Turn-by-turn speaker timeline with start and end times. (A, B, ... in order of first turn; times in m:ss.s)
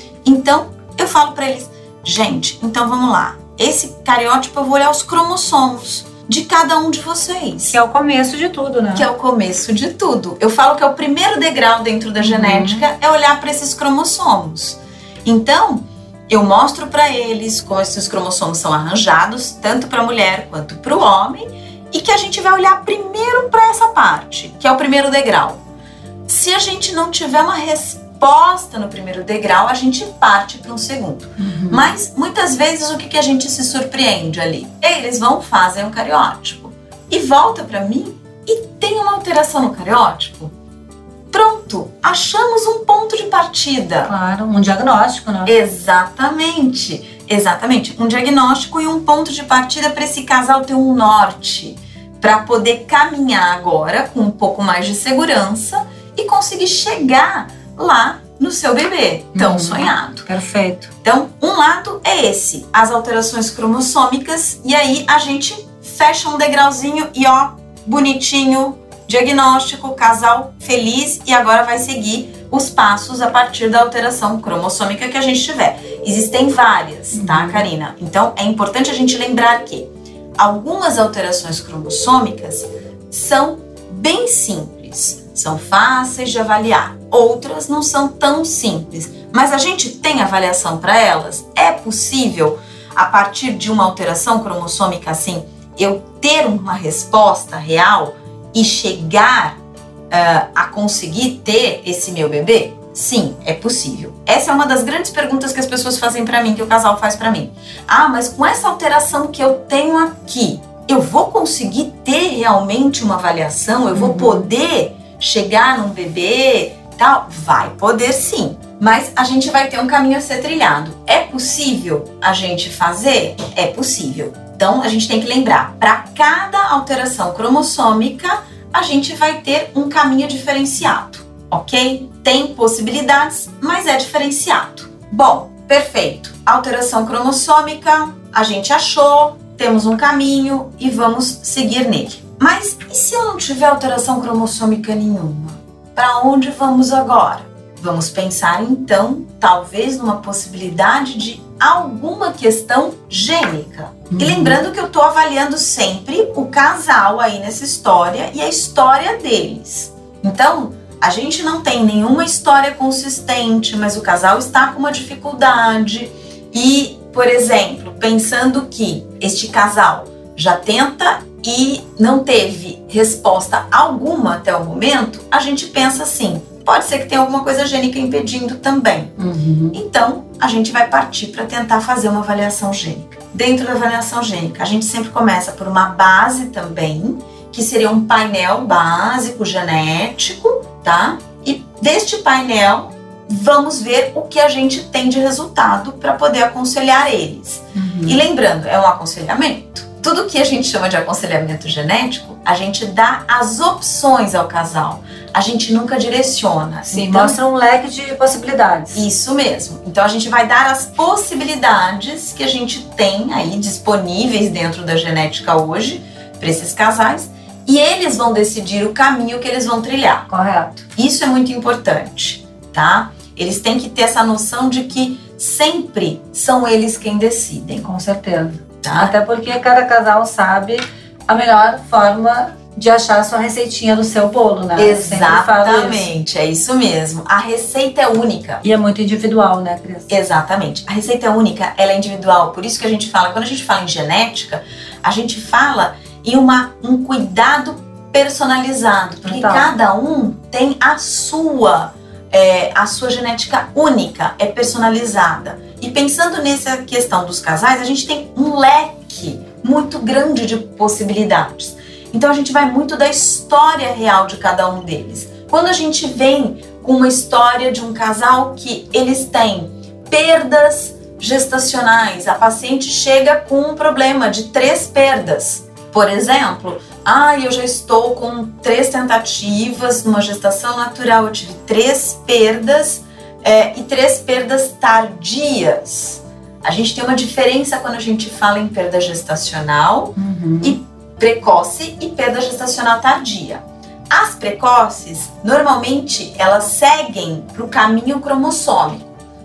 0:00.2-0:07.8 A
0:07.7-0:09.1 B
0:08.9-0:25.6 A
0:12.2-0:12.9 B
0:26.3-0:40.5 A
0:31.4-0:31.9 B
0:41.3-0:44.1 A
0:44.0-0:45.5 B
0:45.4-1:00.3 A
0:59.3-1:00.9 B
1:01.0-1:39.6 A
1:17.1-1:17.6 B
1:40.1-2:59.2 A
1:53.9-1:54.5 B
2:34.1-2:34.6 B
2:59.2-2:59.8 B
2:59.7-3:27.4 A
3:17.7-3:18.2 B
3:26.9-3:29.0 B
3:28.9-3:40.3 A
3:40.3-3:40.8 B
3:40.9-3:47.9 A
3:47.8-3:56.1 B
3:48.8-3:49.1 A
3:54.8-3:58.6 A
3:58.6-4:00.1 B
4:00.1-4:59.2 A
4:09.2-4:09.7 B
4:50.2-4:50.8 B